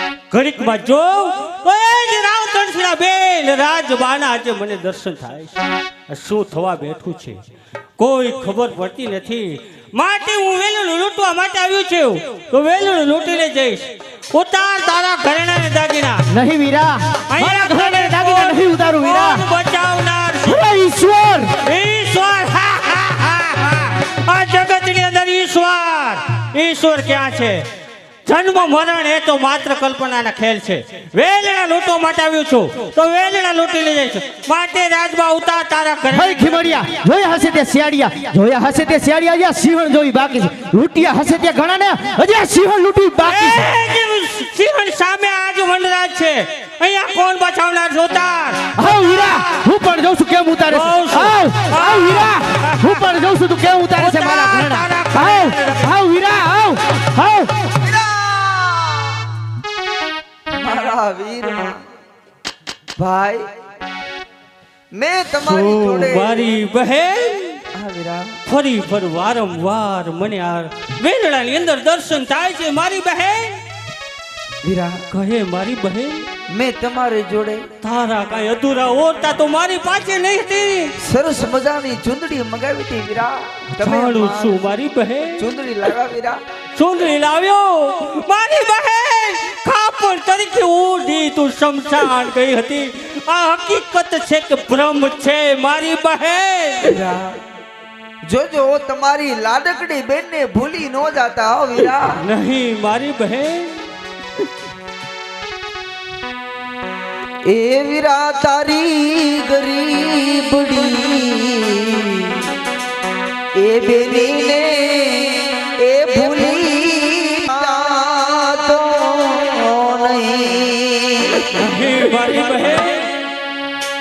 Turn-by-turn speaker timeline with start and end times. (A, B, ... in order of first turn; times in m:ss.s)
0:00.3-0:07.4 A
0:08.0-0:16.2 A
0:16.3-0:19.4 B
0:17.3-0:20.6 A
0:20.4-0:21.6 B
0:21.6-0:27.6 A
0:28.2-0:36.7 A
0:36.1-0:43.7 B
0:43.2-0:48.7 A
0:48.8-0:57.7 B
0:50.7-0:53.0 A
0:54.0-0:55.9 A
0:57.8-0:59.2 C
1:00.5-1:01.8 C
1:03.0-1:03.5 C
1:04.9-1:06.5 C
1:05.4-1:07.6 A
1:07.7-1:08.4 C
1:08.4-1:13.6 A
1:14.6-1:15.0 C
1:15.1-1:16.3 A
1:16.5-1:17.7 C
1:17.8-1:20.9 A
1:21.0-1:24.6 C
1:23.8-1:25.4 A
1:25.4-1:26.4 C
1:26.7-1:37.0 A
1:36.8-1:37.4 C
1:38.2-1:42.2 C
1:42.2-1:43.8 A
1:47.4-1:52.4 C
1:53.6-2:01.5 C
2:01.5-2:03.1 A